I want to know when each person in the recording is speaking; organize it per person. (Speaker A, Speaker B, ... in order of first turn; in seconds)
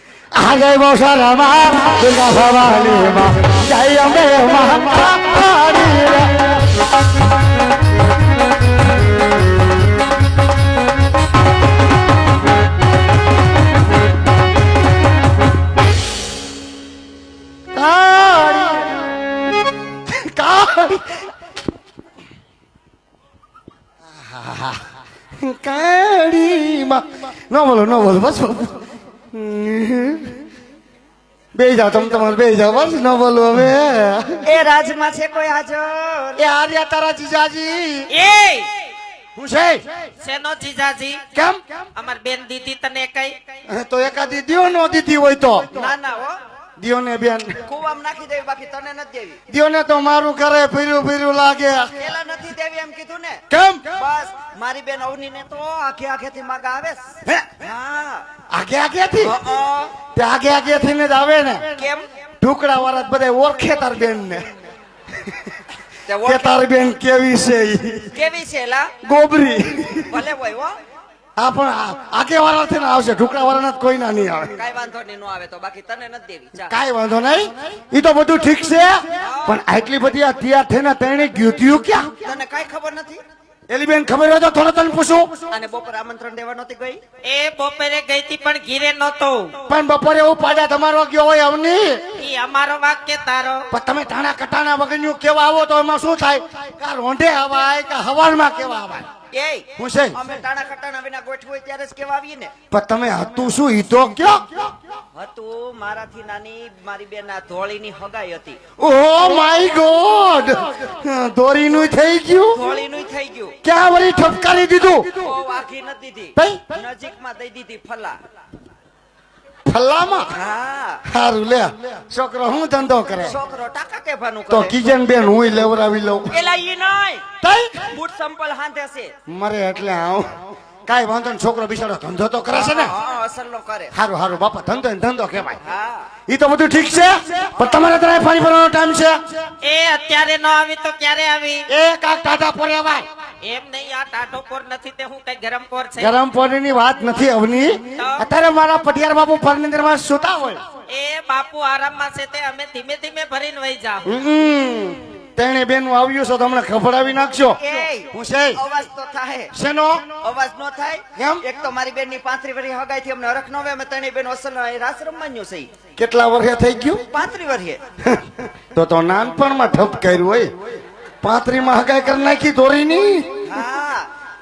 Speaker A: 0.3-6.7, 17.7-19.2, 20.1-21.3, 24.2-24.9, 25.4-30.4, 31.6-34.4, 36.4-38.1, 39.4-39.8, 41.3-41.6, 43.7-45.7, 46.8-47.6, 49.5-51.9, 53.5-54.0, 58.5-59.4, 60.1-61.7, 62.4-64.5, 66.3-68.1, 69.0-70.2, 71.4-74.6, 76.7-82.3, 83.7-85.4, 89.7-92.2, 93.7-99.1, 99.8-100.2, 102.7-104.5, 108.8-112.7, 113.6-115.2, 116.4-116.7, 119.7-120.3, 121.1-123.3, 124.5-126.3, 127.4-128.0, 129.3-132.9, 133.9-135.6, 136.3-139.3, 141.7-143.1, 146.0-150.6, 154.1-157.6, 158.1-158.6, 159.5-160.1, 161.2-161.4, 166.0-167.1, 168.1-170.5, 171.2-173.4
Speaker B: 34.4-36.4, 45.7-46.4, 47.6-49.4, 52.0-53.4, 54.0-58.3, 59.2-60.0, 61.8-62.1, 66.1-66.6, 68.1-68.9, 70.1-70.8, 74.5-76.7, 79.2-79.6, 82.2-83.2, 85.5-87.0, 99.3-102.5, 105.1-108.6, 112.5-113.5, 115.2-118.2, 120.3-121.0, 123.2-124.8, 126.3-127.3, 127.9-129.1, 132.5-133.9, 135.6-136.1, 157.6-159.5, 160.2-165.7, 167.1-167.8, 173.5-174.1
Speaker C: 38.1-38.7, 40.2-41.2, 42.0-43.4, 87.2-89.6, 92.2-93.7, 139.6-141.7, 143.4-146.1, 148.0-148.2, 150.9-154.0